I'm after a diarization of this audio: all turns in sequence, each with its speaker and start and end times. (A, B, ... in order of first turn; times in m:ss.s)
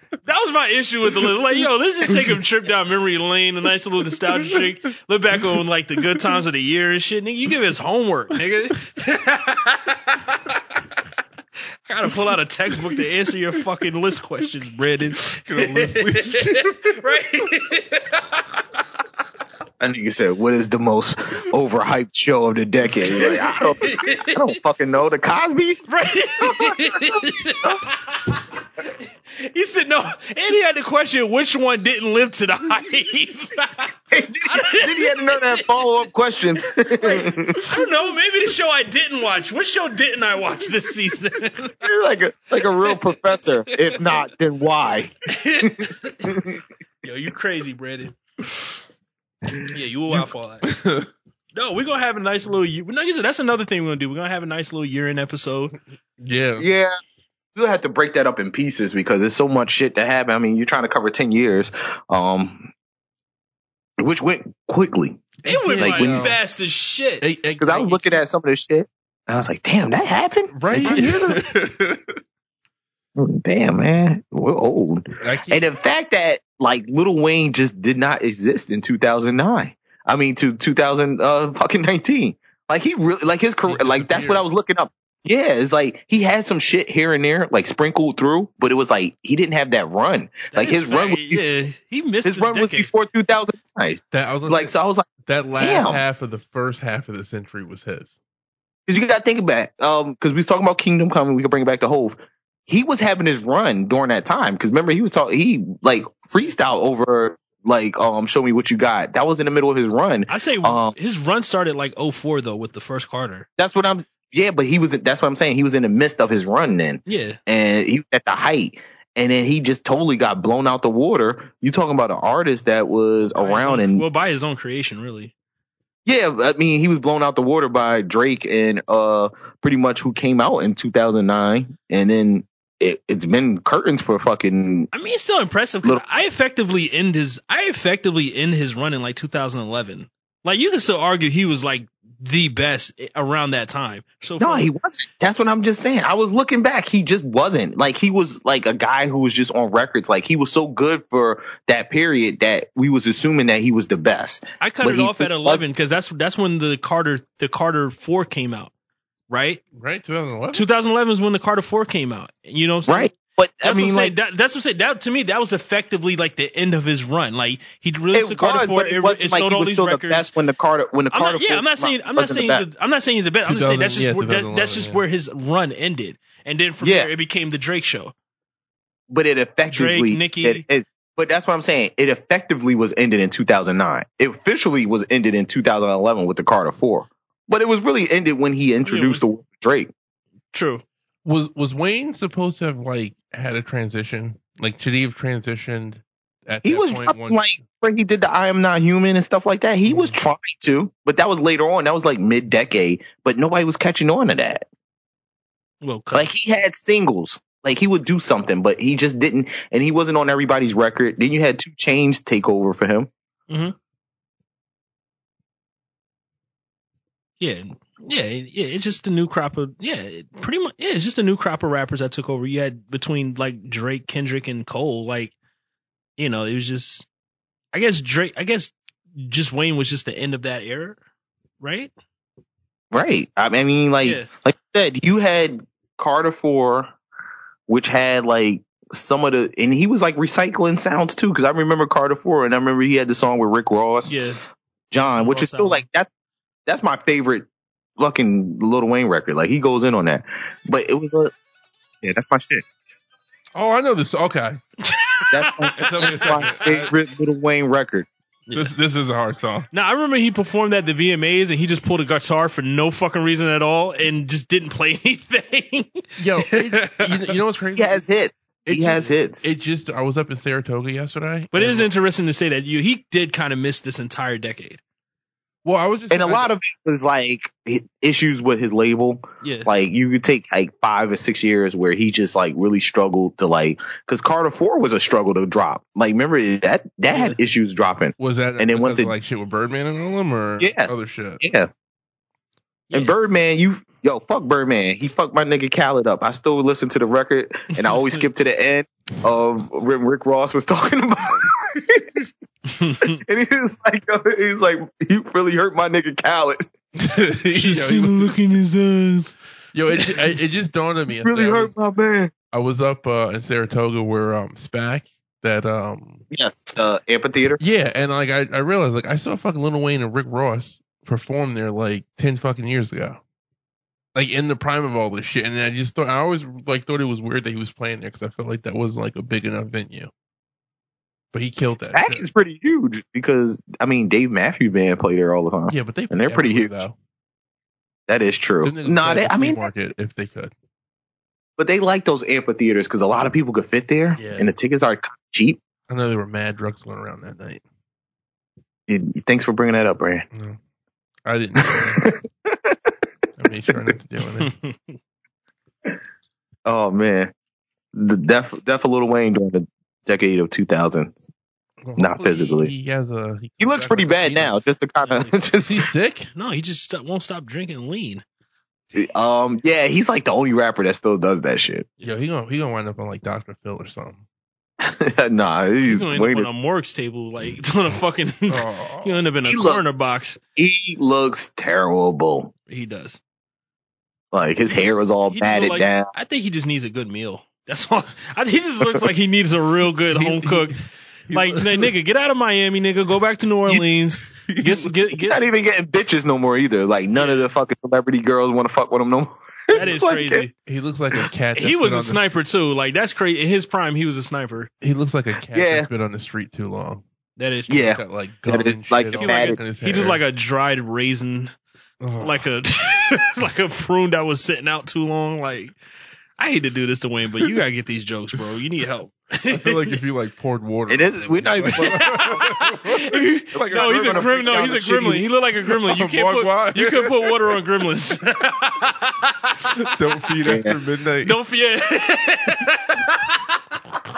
0:00.2-0:10.6 A
0:02.1-0:02.4 B
0:11.9-0:18.6 A
0:15.3-0:17.0 B
0:19.8-0:25.8 C
0:23.1-0:24.4 A
0:25.9-0:33.9 A
0:26.4-0:27.8 C
0:34.1-0:37.7 C
0:34.4-0:35.7 A
0:37.0-0:41.7 A
0:41.8-0:46.6 C
0:42.6-0:43.0 A
0:43.7-0:44.2 A
0:45.3-0:46.4 A
0:47.0-0:48.2 A
0:49.7-0:50.7 A
0:50.6-0:51.1 B
0:51.6-0:55.7 A
0:56.2-0:56.7 B
0:56.6-0:57.0 C
0:57.5-1:02.7 C
1:04.0-1:06.3 C
1:05.4-1:06.4 B
1:05.4-1:07.2 A
1:07.2-1:08.2 B
1:07.6-1:11.4 C
1:10.5-1:12.1 B
1:10.8-1:11.2 A
1:13.2-1:31.4 C
1:15.2-1:15.6 B
1:23.7-1:24.4 B
1:30.5-1:32.9 A
1:32.2-1:36.0 C
1:34.1-1:34.7 B
1:35.2-1:38.1 B
1:38.9-1:50.9 C
1:50.3-1:53.5 A
1:53.6-2:04.0 C
1:57.0-1:57.4 A
2:03.3-2:05.3 A
2:06.0-2:14.9 C
2:14.9-2:24.6 A
2:24.4-2:35.6 C
2:34.6-2:38.7 A
2:39.3-2:39.6 A
2:39.7-2:40.7 B
2:40.5-2:43.1 A
2:42.9-2:44.1 C
2:43.6-2:50.3 A
2:48.1-2:52.6 C
2:51.1-2:58.1 A
2:53.4-2:55.0 B
2:56.8-2:57.1 C
2:59.1-3:09.9 C
2:59.7-3:00.6 A
3:08.8-3:09.2 A
3:10.5-3:10.8 A
3:11.2-3:17.6 B
3:16.6-3:24.7 C
3:19.8-3:20.2 A
3:25.8-3:26.3 A
3:26.1-3:33.1 C
3:33.5-3:33.7 A
3:37.4-3:45.3 A
3:46.2-3:47.1 A
3:47.7-3:51.0 A
3:51.6-3:51.9 A
3:52.9-3:56.9 C
3:54.0-3:54.3 A
3:57.7-4:04.2 C
4:04.1-4:04.4 A
4:04.9-4:06.1 C
4:05.1-4:05.8 A
4:06.6-4:11.3 C
4:12.0-4:12.6 C
4:13.5-4:14.6 B
4:14.8-4:16.5 A
4:15.3-4:18.1 C
4:15.8-4:16.9 B
4:18.5-4:18.7 A
4:18.5-4:19.7 B
4:19.7-4:27.4 A
4:26.2-4:28.0 B
4:27.8-4:29.4 C
4:28.6-4:31.9 B
4:31.5-4:34.8 A
4:35.6-4:36.5 B
4:36.1-4:49.1 C
4:39.4-4:39.7 A
4:47.1-4:47.4 A
4:48.2-4:51.4 B
4:50.6-4:51.7 C
4:52.9-5:02.2 C
4:57.7-4:58.2 A
5:02.7-5:03.2 A
5:03.0-5:06.6 C
5:07.0-5:08.4 B
5:07.5-5:09.4 A
5:09.7-5:11.7 B
5:11.1-5:12.3 C
5:12.5-5:16.2 B
5:16.3-5:17.6 C
5:17.6-5:23.2 B
5:24.1-5:30.1 B
5:31.3-5:32.2 B
5:31.9-5:36.8 C
5:35.7-5:37.0 B
5:38.1-5:39.6 C
5:38.6-5:40.5 B
5:41.6-5:45.6 C
5:44.2-5:44.5 B
5:45.9-5:47.6 B
5:48.9-5:50.2 C
5:50.3-5:50.6 B
5:51.2-5:52.1 B
5:51.6-5:52.8 C
5:53.4-5:54.5 B
5:54.4-5:55.0 A
5:56.6-5:57.3 C
5:57.9-6:01.2 C
6:01.8-6:04.6 B
6:02.0-6:02.7 C
6:03.6-6:05.9 C
6:05.0-6:05.4 A
6:05.6-6:06.3 B
6:06.3-6:08.2 A
6:09.0-6:11.9 C
6:12.0-6:14.2 B
6:14.8-6:16.5 C
6:15.8-6:20.4 A
6:18.5-6:19.2 B
6:19.4-6:19.9 C
6:20.6-6:22.5 C
6:22.7-6:23.2 A
6:24.3-6:26.1 C
6:25.3-6:30.8 A
6:30.1-6:30.8 B
6:31.3-6:31.9 B
6:31.3-6:35.4 A
6:34.3-6:34.9 B
6:35.1-6:40.4 C
6:37.1-6:37.4 A
6:39.7-6:40.5 A
6:40.6-6:42.2 B
6:41.5-6:44.7 A
6:44.8-6:47.0 B
6:45.5-6:45.9 C
6:47.4-6:47.8 A
6:47.7-6:49.6 C
6:47.8-6:50.2 B
6:49.2-6:51.5 A
6:52.0-6:52.4 B
6:52.2-6:55.7 A
6:56.4-6:59.9 A
6:59.5-7:04.3 B
7:00.9-7:02.6 C
7:01.8-7:09.7 A
7:03.5-7:05.3 C
7:05.8-7:07.4 B
7:09.8-7:11.4 B
7:10.4-7:10.8 C
7:11.2-7:13.6 A